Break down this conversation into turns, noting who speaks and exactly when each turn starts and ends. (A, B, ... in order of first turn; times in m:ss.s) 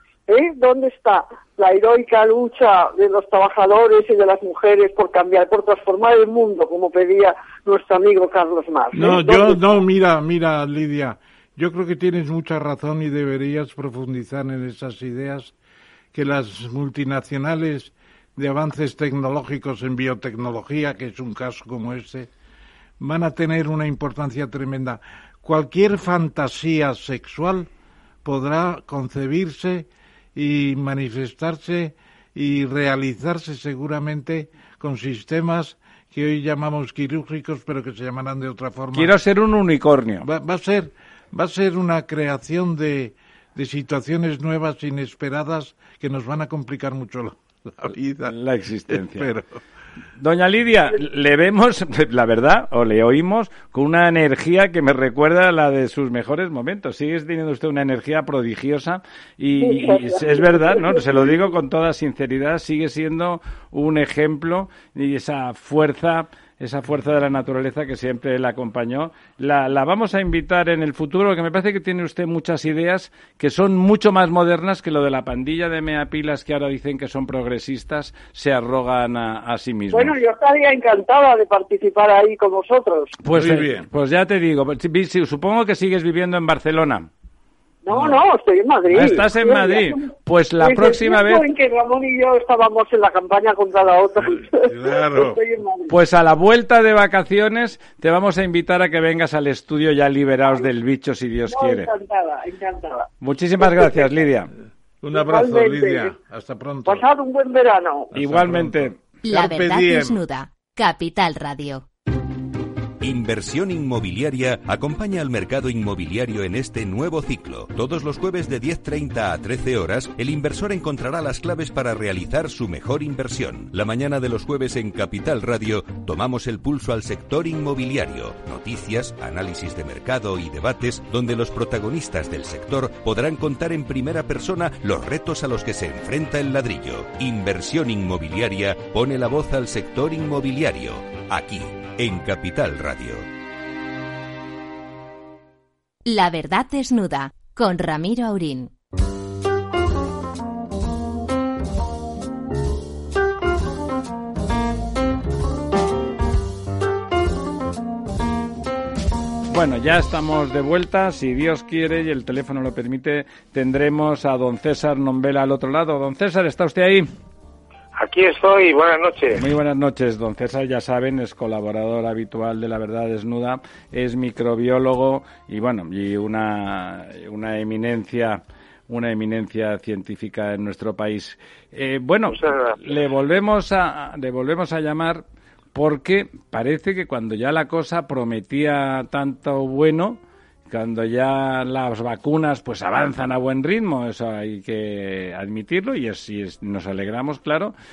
0:00.3-0:09.6 A
0:08.9-0:15.5 B
0:16.1-0:22.3 B
0:23.0-0:27.7 B
0:28.2-0:39.1 B
0:38.9-0:40.3 C
0:40.2-0:48.4 B
0:48.3-0:49.3 C
0:48.9-0:49.6 B
0:50.2-1:20.1 C
0:59.6-1:01.3 A
1:19.9-1:23.1 A
1:23.2-1:27.1 C
1:23.3-1:23.9 B
1:27.8-1:35.9 A
1:27.9-1:28.2 C
1:28.9-1:31.4 C
1:34.6-1:35.4 B
1:35.9-1:41.9 C
1:41.5-1:44.1 A
1:43.2-1:44.5 C
1:45.0-1:47.0 B
1:45.1-1:46.1 A
1:46.8-1:48.1 A
1:48.1-1:50.2 B
1:48.1-1:49.0 C
1:49.2-1:51.8 D
1:53.0-2:23.2 E
2:26.0-2:28.7 D
2:39.5-2:47.1 C
2:48.0-2:49.5 F
2:49.4-3:05.2 C
3:02.3-3:03.0 F
3:05.7-3:10.2 C
3:10.7-3:17.7 C